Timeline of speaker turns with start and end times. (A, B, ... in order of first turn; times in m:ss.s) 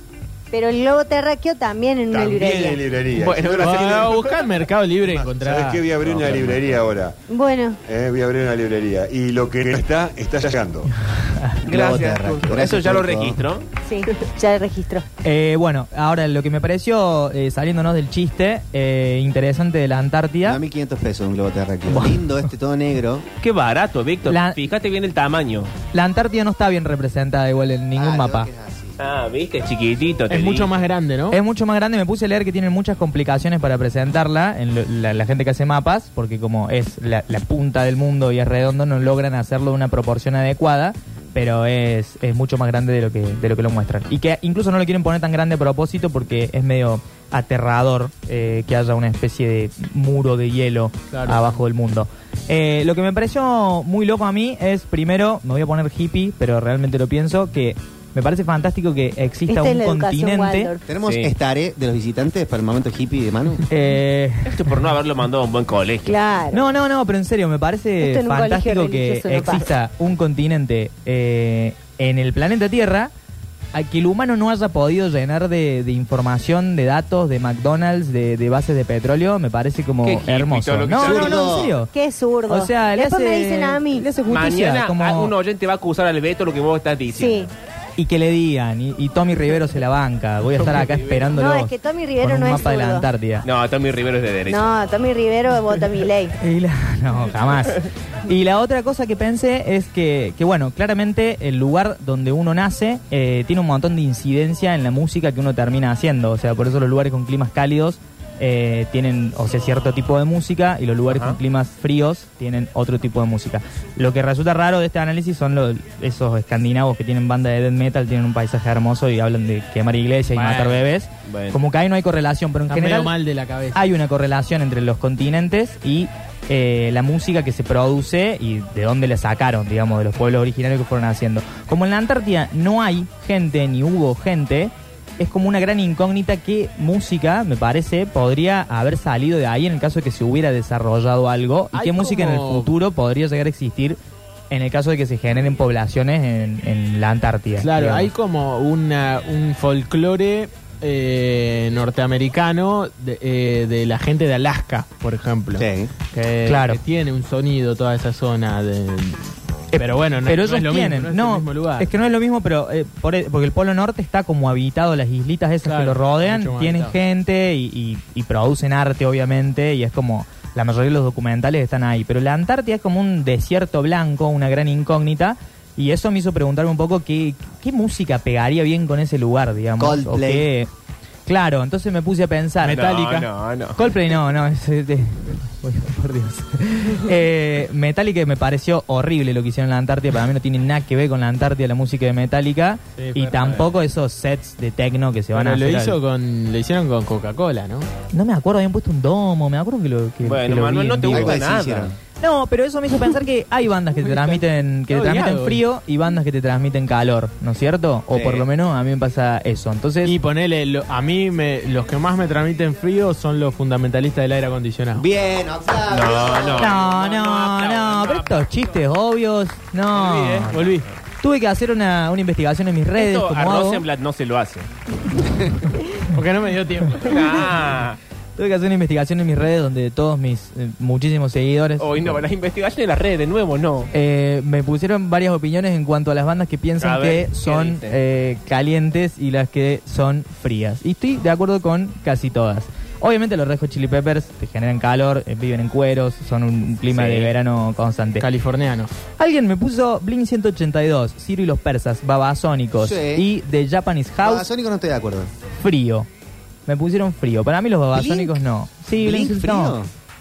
0:00.5-0:02.8 A
0:02.1-0:04.2 B
0:03.1-0:04.4 C
0:03.5-0:05.9 D
0:05.0-0:07.2 B
0:07.3-0:07.8 A
0:07.8-0:10.9 B
0:11.1-0:11.6 E
0:11.6-0:13.4 F
0:11.6-0:13.6 C
0:13.8-0:15.0 A
0:15.2-0:20.6 E
0:20.4-0:23.2 F
0:21.9-0:22.4 E
0:23.4-0:25.7 C
0:24.2-0:24.6 E
0:25.9-0:28.5 E
0:27.9-0:29.0 F
0:29.0-0:30.7 C
0:30.3-0:31.4 D
0:31.3-1:00.7 E
0:51.1-0:51.5 D
0:59.5-1:00.8 A
1:00.9-1:03.6 F
1:01.0-1:01.3 C
1:03.7-1:04.8 E
1:04.4-1:06.2 C
1:06.0-1:06.6 A
1:06.5-1:13.1 E
1:08.0-1:09.7 A
1:13.7-1:21.9 E
1:20.0-1:21.4 C
1:21.0-1:21.8 F
1:21.2-1:24.0 A
1:22.5-1:25.3 E
1:24.3-1:27.5 C
1:27.1-1:27.5 A
1:28.0-1:33.4 E
1:31.3-1:33.0 A
1:33.4-1:34.7 C
1:34.5-1:36.4 A
1:36.4-2:03.1 E
1:51.1-1:51.4 C
2:00.3-2:00.8 D
2:01.3-2:01.6 C
2:02.7-2:03.8 D
2:03.7-2:24.0 E
2:21.7-2:22.7 D
2:24.5-2:28.1 E
2:27.6-2:41.9 D
2:35.5-2:35.9 F
2:36.4-2:36.8 E
2:39.7-3:00.7 E
2:45.6-2:46.9 D
2:59.8-3:00.5 F
3:01.2-3:02.9 E
3:02.6-3:03.3 D
3:02.6-3:03.8 C
3:03.8-3:16.0 E
3:13.0-3:13.7 D
3:15.3-3:17.9 D
3:18.1-3:21.4 E
3:20.2-3:21.9 C
3:21.1-3:21.9 F
3:22.2-3:30.2 E
3:24.1-3:25.6 D
3:28.1-3:28.4 F
3:30.0-3:35.0 D
3:35.0-3:36.8 F
3:35.9-3:38.6 C
3:36.6-3:40.7 E
3:40.0-3:40.9 D
3:41.2-3:43.8 E
3:43.0-3:44.6 C
3:46.0-3:47.5 D
3:47.0-3:48.0 C
3:48.4-3:52.2 E
3:51.8-3:53.9 C
3:53.9-4:08.3 E
3:56.8-3:58.0 C
4:06.9-4:07.3 C
4:08.2-4:08.9 D
4:09.2-4:14.4 E
4:12.8-4:13.2 F
4:14.2-4:15.3 F
4:15.5-4:16.1 E
4:16.6-4:19.8 E
4:17.9-4:18.4 F
4:19.0-4:19.9 F